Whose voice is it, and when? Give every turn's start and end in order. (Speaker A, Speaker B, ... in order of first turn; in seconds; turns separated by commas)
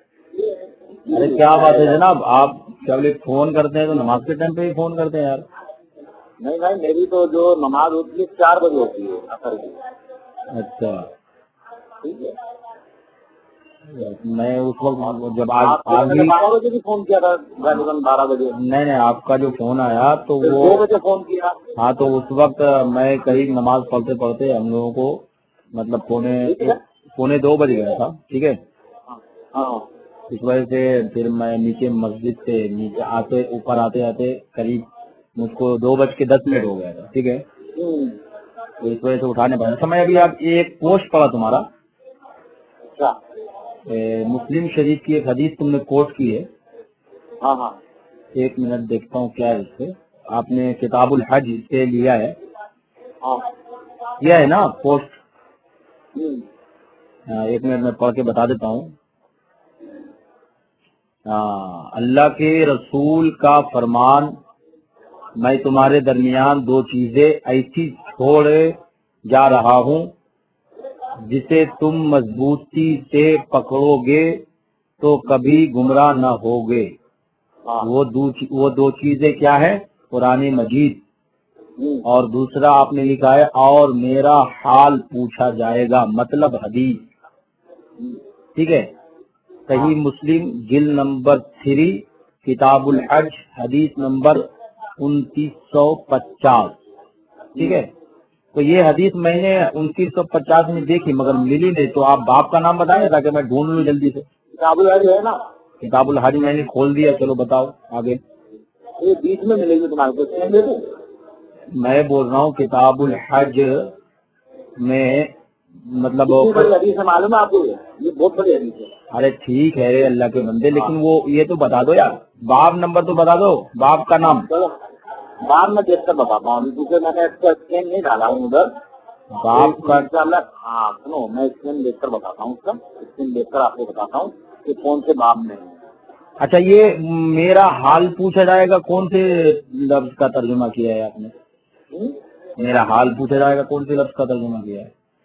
Speaker A: 1.1-2.0, Speaker B: 1.1-5.5, Speaker A: 6.4-9.8, Speaker B: 10.5-11.1, Speaker A: 12.0-12.3, Speaker B: 13.9-16.4, Speaker A: 15.6-18.6, Speaker B: 18.5-20.8, Speaker A: 20.4-21.6, Speaker B: 21.8-28.6, Speaker A: 26.5-26.8, Speaker A: 29.5-29.9, Speaker B: 30.3-37.4, Speaker A: 37.8-38.2, Speaker B: 38.8-41.7, Speaker B: 43.9-46.5, Speaker A: 47.4-47.8, Speaker B: 48.4-52.4, Speaker B: 54.2-55.2, Speaker A: 56.1-56.4, Speaker B: 57.3-58.9, Speaker B: 61.3-64.4, Speaker B: 65.4-70.1, Speaker B: 71.3-74.4, Speaker B: 75.0-76.9, Speaker B: 77.8-81.0, Speaker A: 81.8-82.0, Speaker B: 82.0-87.0, Speaker B: 88.5-88.9, Speaker B: 89.7-94.5, Speaker B: 95.0-96.8, Speaker B: 97.5-97.9, Speaker B: 98.5-104.2, Speaker A: 104.6-105.4, Speaker B: 105.8-108.2, Speaker A: 109.0-110.9, Speaker B: 111.7-113.9, Speaker B: 114.8-116.7, Speaker A: 116.2-118.9, Speaker B: 119.1-124.5, Speaker A: 125.4-128.7, Speaker B: 129.3-130.1, Speaker A: 129.5-135.8, Speaker B: 136.4-141.3, Speaker B: 142.6-144.9